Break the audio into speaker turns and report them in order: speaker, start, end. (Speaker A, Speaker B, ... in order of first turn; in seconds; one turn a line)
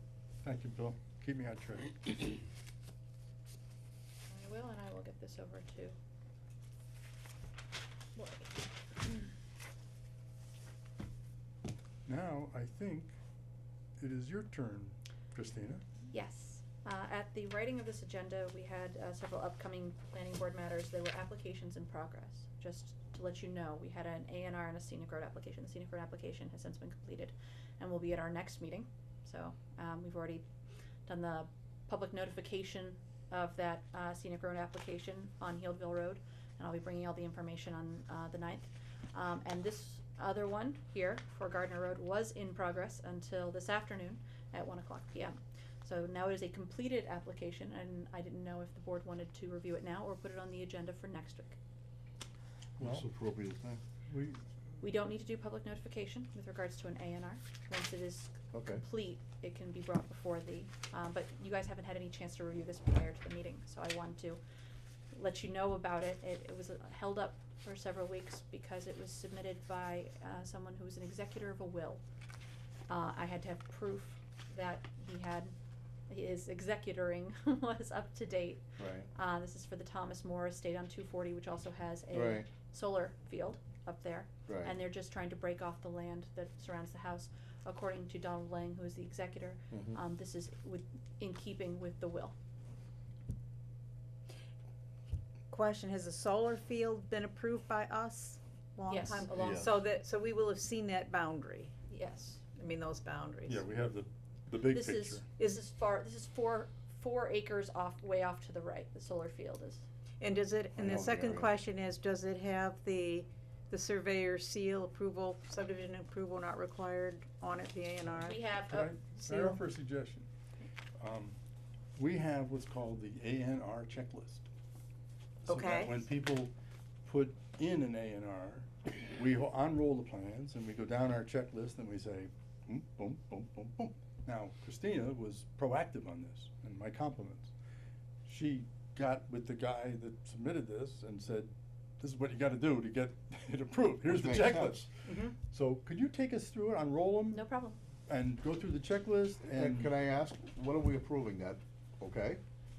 Speaker A: 0.4-2.3
Speaker B: 4.3-6.0
Speaker B: 8.2-8.5
Speaker A: 12.1-13.2
Speaker A: 14.0-15.8
Speaker B: 16.1-30.4
Speaker B: 31.1-51.6
Speaker A: 52.8-53.1
Speaker C: 52.8-53.8
Speaker A: 54.0-54.4
Speaker B: 54.8-64.4
Speaker C: 58.5-58.8
Speaker B: 65.1-72.0
Speaker B: 72.9-75.5
Speaker B: 76.1-92.3
Speaker C: 78.8-79.1
Speaker C: 82.1-82.5
Speaker C: 84.5-84.8
Speaker C: 89.7-90.0
Speaker D: 95.5-101.7
Speaker B: 98.9-99.7
Speaker C: 99.3-99.7
Speaker B: 101.9-102.5
Speaker D: 102.5-103.6
Speaker A: 103.5-105.2
Speaker B: 104.7-109.8
Speaker D: 110.2-118.4
Speaker C: 110.7-111.5
Speaker B: 118.2-119.0
Speaker A: 118.6-120.3
Speaker D: 119.2-119.6
Speaker A: 121.0-121.4
Speaker A: 122.0-124.5
Speaker A: 125.4-126.5
Speaker D: 125.5-126.0
Speaker A: 127.0-137.5
Speaker A: 138.2-147.5
Speaker C: 144.1-144.9
Speaker D: 145.0-145.3
Speaker B: 147.3-147.8
Speaker A: 148.1-149.9
Speaker C: 149.5-152.4